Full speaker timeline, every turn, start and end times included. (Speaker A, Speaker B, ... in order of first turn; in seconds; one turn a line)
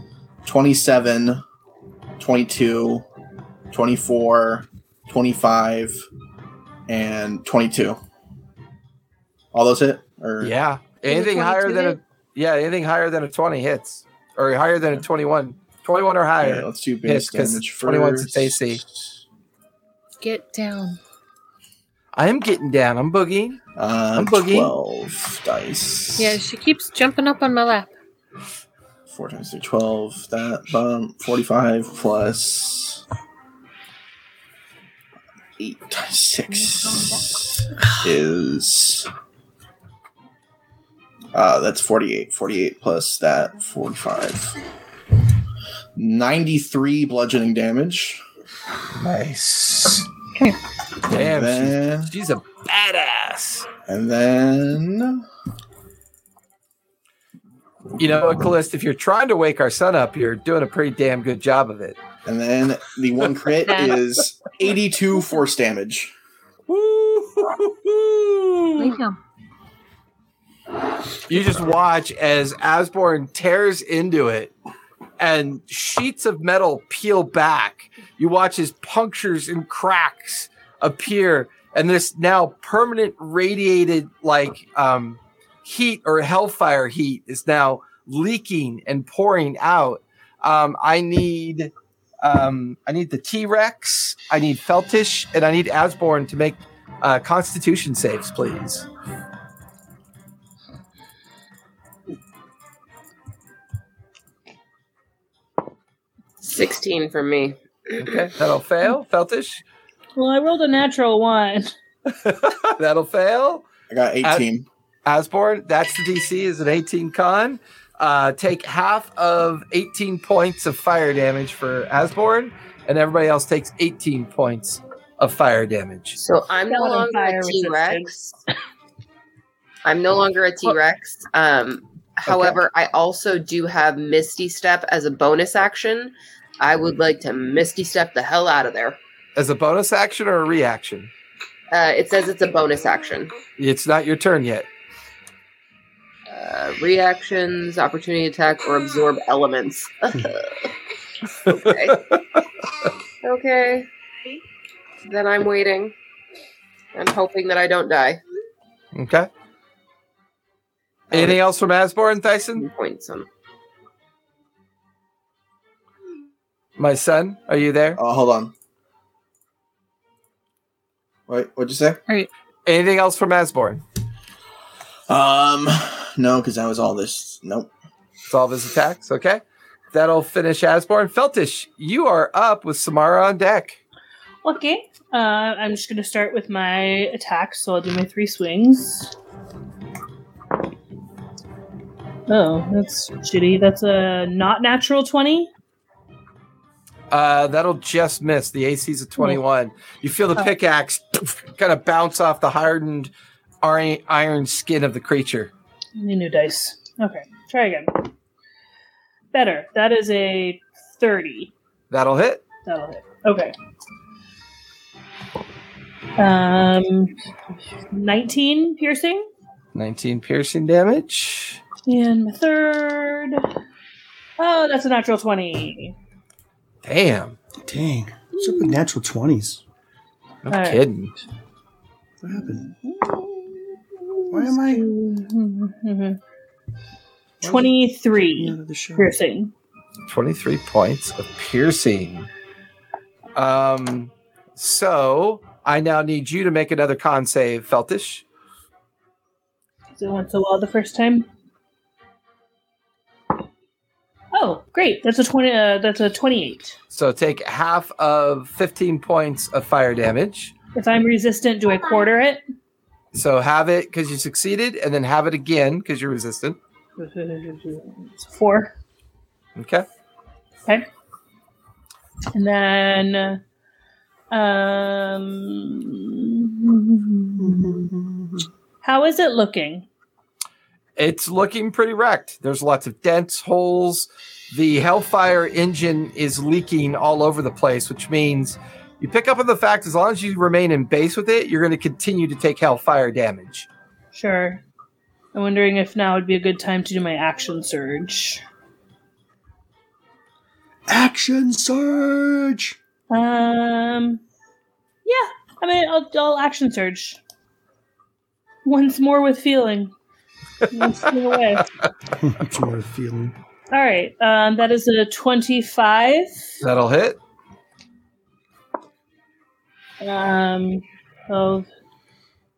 Speaker A: 0.4-1.4
Speaker A: 2.2-3.0
Speaker A: 3.7-6.0
Speaker A: 6.9-8.0
Speaker A: 9.5-10.5
Speaker B: 10.4-18.8
Speaker C: 11.1-12.0
Speaker A: 16.4-18.8
Speaker C: 20.2-21.0
Speaker B: 22.1-23.6
Speaker A: 23.8-26.4
Speaker B: 24.1-24.7
Speaker C: 26.2-27.9
Speaker A: 29.1-33.0
Speaker A: 35.6-39.1
Speaker A: 41.3-44.6
Speaker A: 46.0-48.2
Speaker B: 48.9-50.1
Speaker B: 51.1-53.7
Speaker A: 51.1-52.1
Speaker A: 53.9-55.2
Speaker B: 58.0-62.0
Speaker A: 62.2-66.1
Speaker C: 63.6-64.0
Speaker B: 66.7-69.0
Speaker C: 68.8-69.2
Speaker B: 71.3-74.5
Speaker B: 75.2-98.8
Speaker D: 106.4-107.6
Speaker B: 108.0-109.6
Speaker E: 110.2-111.7
Speaker B: 112.1-113.7
Speaker A: 113.9-114.7
Speaker B: 115.0-126.2
Speaker D: 126.2-128.4
Speaker E: 126.7-128.1
Speaker D: 129.8-139.0
Speaker B: 132.3-132.6
Speaker B: 139.3-141.1
Speaker D: 141.7-143.3
Speaker B: 143.6-144.7
Speaker D: 146.3-150.7
Speaker D: 151.4-152.0
Speaker B: 151.5-152.2
Speaker D: 153.2-153.9
Speaker D: 155.0-155.9
Speaker D: 156.9-158.2
Speaker B: 158.9-159.3
Speaker B: 161.1-162.7
Speaker D: 162.6-163.3
Speaker B: 166.8-168.0
Speaker A: 167.9-168.5
Speaker A: 171.3-172.0
Speaker B: 172.7-173.8
Speaker A: 175.1-177.7
Speaker B: 178.3-183.8
Speaker E: 184.4-189.1
Speaker E: 192.3-195.5
Speaker B: 197.1-203.1
Speaker B: 203.6-205.5
Speaker E: 206.0-208.1
Speaker E: 209.3-211.5
Speaker B: 211.9-212.4
Speaker E: 212.7-213.5
Speaker E: 216.2-217.1
Speaker E: 217.9-219.3
Speaker B: 219.7-221.6
Speaker E: 221.8-223.4
Speaker E: 224.4-225.9
Speaker B: 226.8-227.4
Speaker F: 227.6-229.6
Speaker B: 230.4-231.1
Speaker E: 230.5-230.8
Speaker F: 232.2-232.6
Speaker E: 232.4-236.2
Speaker F: 234.3-234.9
Speaker F: 237.4-237.7
Speaker E: 237.4-239.5
Speaker F: 238.3-239.1
Speaker B: 240.1-242.3
Speaker B: 243.3-248.2
Speaker E: 249.9-251.3
Speaker E: 254.3-256.8
Speaker B: 256.9-260.5
Speaker E: 260.7-262.4
Speaker B: 263.1-266.6
Speaker E: 267.0-268.7
Speaker B: 269.6-269.9
Speaker E: 272.3-273.4
Speaker E: 274.3-277.8
Speaker F: 277.4-278.5
Speaker E: 278.8-279.9
Speaker B: 281.0-293.7
Speaker E: 294.1-294.6
Speaker E: 295.3-298.4
Speaker F: 300.9-302.8
Speaker E: 303.1-304.2
Speaker E: 305.0-307.2
Speaker E: 308.6-309.9
Speaker E: 310.7-311.7
Speaker F: 312.2-313.4
Speaker E: 313.7-316.5
Speaker B: 316.6-317.2
Speaker E: 320.0-321.7